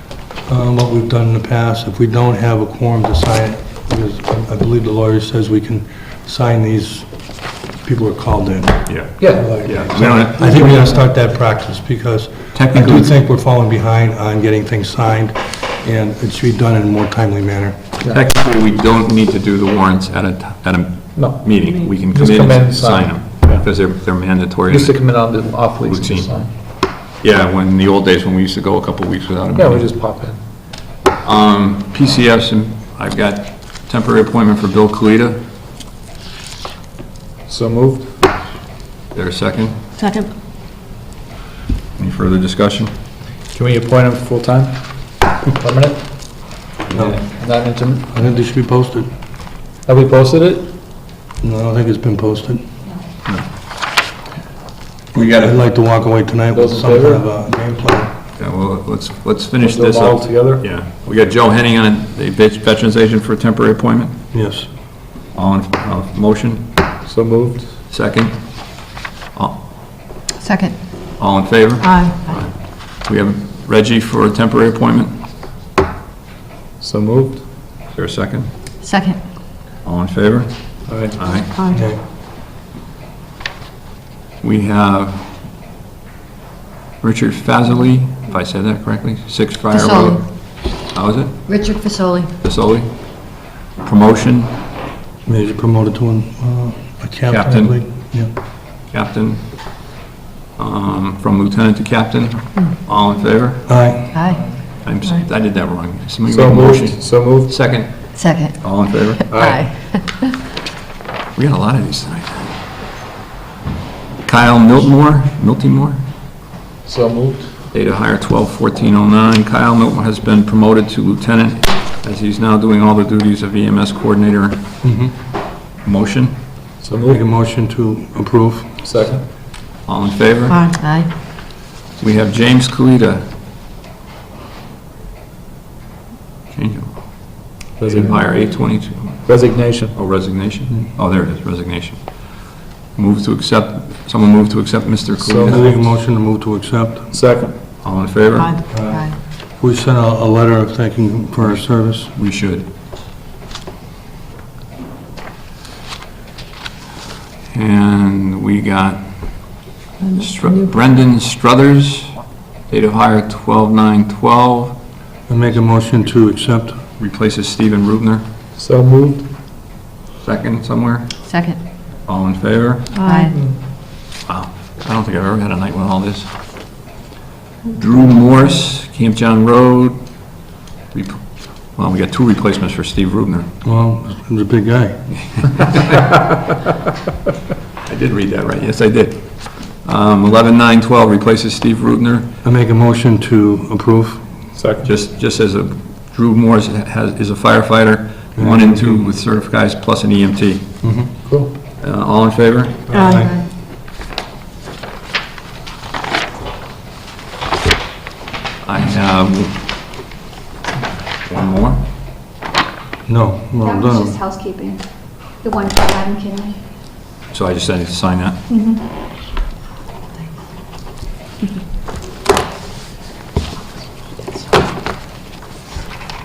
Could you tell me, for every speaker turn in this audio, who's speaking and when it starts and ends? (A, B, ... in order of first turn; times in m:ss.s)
0:00.5-0:07.1 A
0:07.8-0:17.8 A
0:08.9-0:10.8 B
0:09.2-0:09.8 C
0:10.4-0:10.8 C
0:12.5-0:13.1 B
0:18.1-0:25.0 B
0:21.2-0:23.7 C
0:24.7-0:26.5 C
0:25.8-0:26.4 B
0:27.2-0:29.9 B
0:29.6-0:30.4 C
0:31.2-0:35.4 B
0:37.5-0:38.2 C
0:39.1-0:39.8 B
0:40.0-0:40.3 D
0:42.0-0:42.9 B
0:43.5-0:48.1 C
0:46.9-0:47.3 A
0:48.1-0:49.1 A
0:49.8-0:50.7 C
0:51.4-0:52.6 A
0:55.1-0:55.6 B
0:55.4-0:58.1 A
0:56.5-0:57.3 C
0:58.4-1:04.1 B
0:59.6-1:00.6 C
1:04.3-1:04.7 A
1:05.3-1:06.7 B
1:07.1-1:07.7 C
1:07.9-1:09.6 B
1:10.4-1:10.8 D
1:11.2-1:15.2 B
1:11.8-1:12.4 D
1:16.8-1:17.4 C
1:17.9-1:18.5 B
1:18.8-1:19.2 D
1:19.8-1:21.5 B
1:20.9-1:21.2 C
1:21.6-1:21.8 D
1:21.7-1:22.0 A
1:24.4-1:25.3 B
1:27.0-1:31.4 B
1:29.7-1:30.2 D
1:31.5-1:32.3 D
1:32.4-1:34.6 B
1:35.3-1:38.3 A
1:37.3-1:37.8 B
1:38.9-1:39.5 B
1:40.6-1:44.1 B
1:43.7-1:44.1 A
1:44.1-1:44.6 D
1:44.8-1:49.3 B
1:46.3-1:47.6 C
1:48.2-1:50.4 D
1:49.3-1:49.7 C
1:51.4-1:52.6 B
1:54.2-1:56.0 B
1:56.8-1:57.6 C
1:57.7-2:04.6 B
2:04.8-2:05.1 A
2:05.8-2:06.4 B
2:06.8-2:07.2 C
2:07.1-2:08.7 A
2:08.8-2:09.2 C
2:09.8-2:10.8 B
2:10.5-2:11.1 D
2:12.0-2:13.2 B
2:16.5-2:25.9 B
2:17.8-2:18.2 C
2:19.3-2:20.0 C
2:25.2-2:25.7 C
2:25.4-2:27.1 A
2:27.1-2:27.5 C
2:27.8-2:28.6 B
2:28.4-2:29.2 D
2:28.7-2:32.1 A
2:31.4-2:32.7 B
2:37.5-2:44.8 B
2:40.0-2:40.7 D
2:45.3-2:46.8 A
2:47.0-2:48.2 B
2:48.6-2:49.3 C
2:50.2-2:51.5 B
2:51.3-2:51.6 D
2:52.0-2:52.9 B
2:52.9-2:53.5 D
2:53.3-2:53.6 C
2:54.2-2:56.3 B
2:57.7-3:00.3 B
3:00.9-3:03.5 B
3:03.6-3:05.5 A
3:07.9-3:12.3 B
3:12.4-3:14.2 A
3:14.5-3:14.9 C
3:14.8-3:22.9 B
3:18.4-3:19.0 A
3:20.8-3:21.1 A
3:21.3-3:21.5 C
3:22.9-3:23.4 A
3:22.9-3:23.4 D
3:28.6-3:29.6 B
3:31.3-3:31.8 B
3:33.1-3:34.2 A
3:33.6-3:36.6 E
3:37.3-3:38.4 B
3:38.5-3:38.9 E